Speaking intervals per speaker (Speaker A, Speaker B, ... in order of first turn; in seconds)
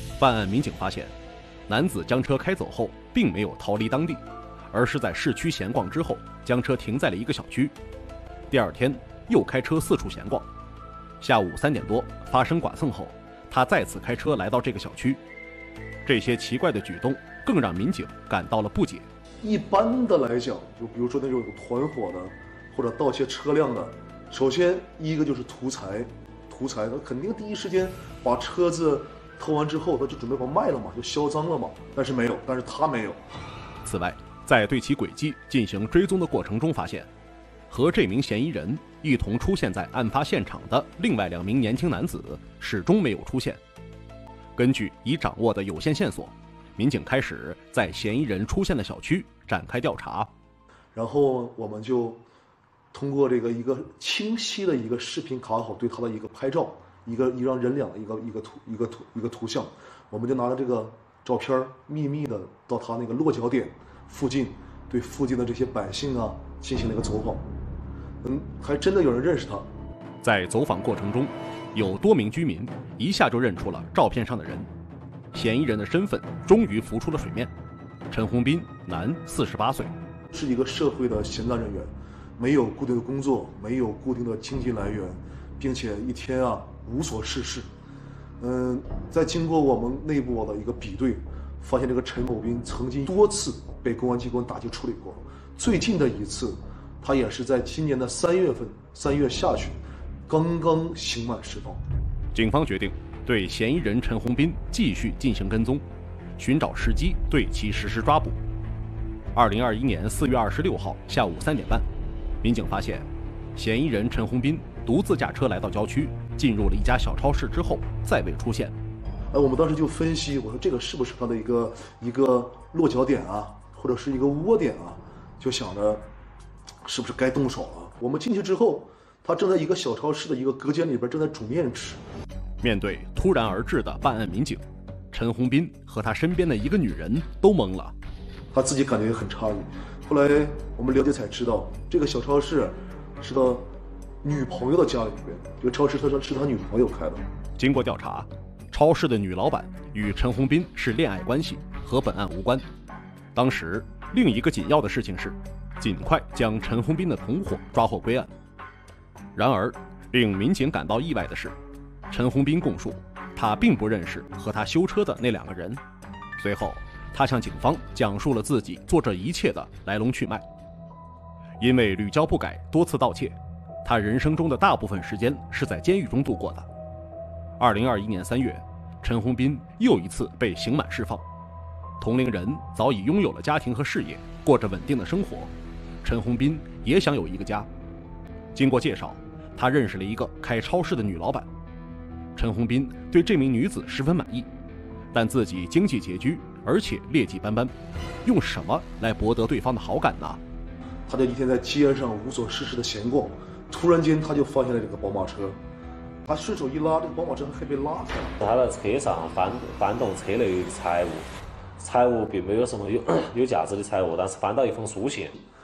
Speaker A: 0.2-1.1, 1.7-7.7, 8.5-10.5, 11.2-15.2, 16.1-19.1, 33.8-37.1, 37.7-43.6, 44.5-50.3, 70.2-74.7, 75.3-77.5, 78.1-79.9, 102.3-105.8, 106.4-108.4, 109.3-111.8, 112.4-118.8, 132.6-137.9, 147.6-152.7, 153.3-158.3, 159.3-161.5, 162.1-165.8, 166.4-170.4, 171.6-176.7, 177.6-181.2, 182.0-185.5, 186.0-187.7, 188.5-191.5, 192.3-194.5, 195.1-197.7, 198.2-200.4
Speaker B: 19.4-33.2, 50.9-52.2, 52.9-67.5, 68.2-69.7, 80.3-87.7, 88.4-101.8, 119.3-126.1, 126.8-132.0, 138.5-143.7, 144.2-147.2, 201.1-205.6, 206.2-208.3
Speaker C: 208.4-215.3